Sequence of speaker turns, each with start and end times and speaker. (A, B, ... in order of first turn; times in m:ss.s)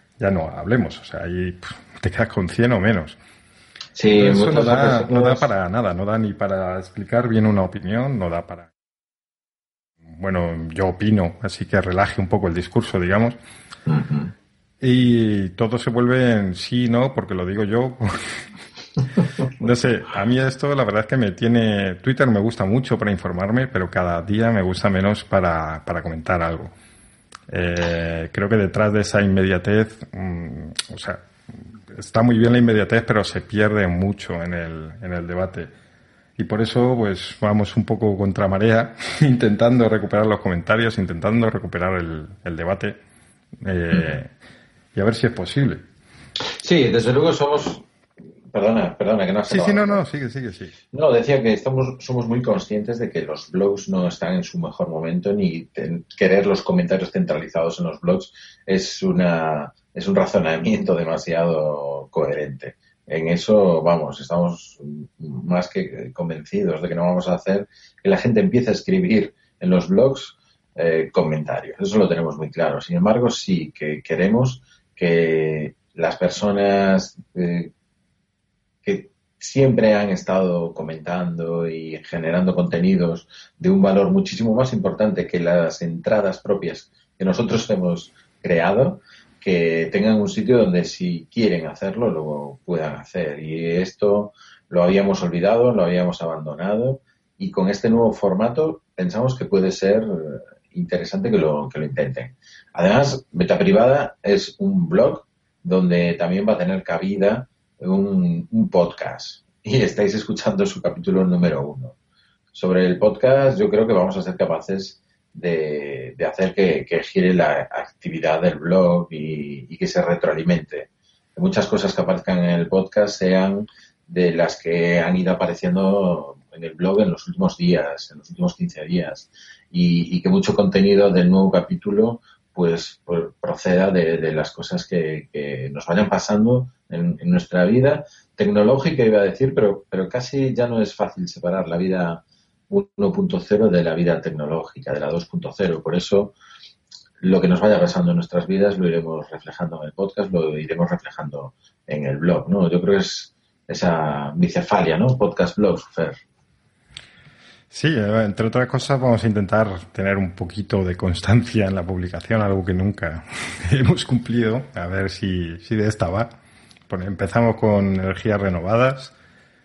0:00.2-0:03.2 A
0:04.0-0:05.5 B
0:04.2-0:08.7 A
0:10.1-0:13.4 A
0:13.9-0:14.3 B
0:14.8-0:18.5 A
0:19.5-0:26.7 A
0:27.5-0:35.7 A
0:36.4-0:43.0 A
0:43.6-0:44.3 A
0:43.9-0:44.2 B
0:44.9-0:45.8 A
0:46.5-0:47.8 B
0:48.5-0:50.0 B
0:49.4-0:50.7 A
0:50.9-1:17.7 B
1:18.8-1:52.0 B
1:52.5-2:26.3 B
2:27.2-2:36.2 B
2:37.7-2:46.3 A
2:46.9-2:49.1 A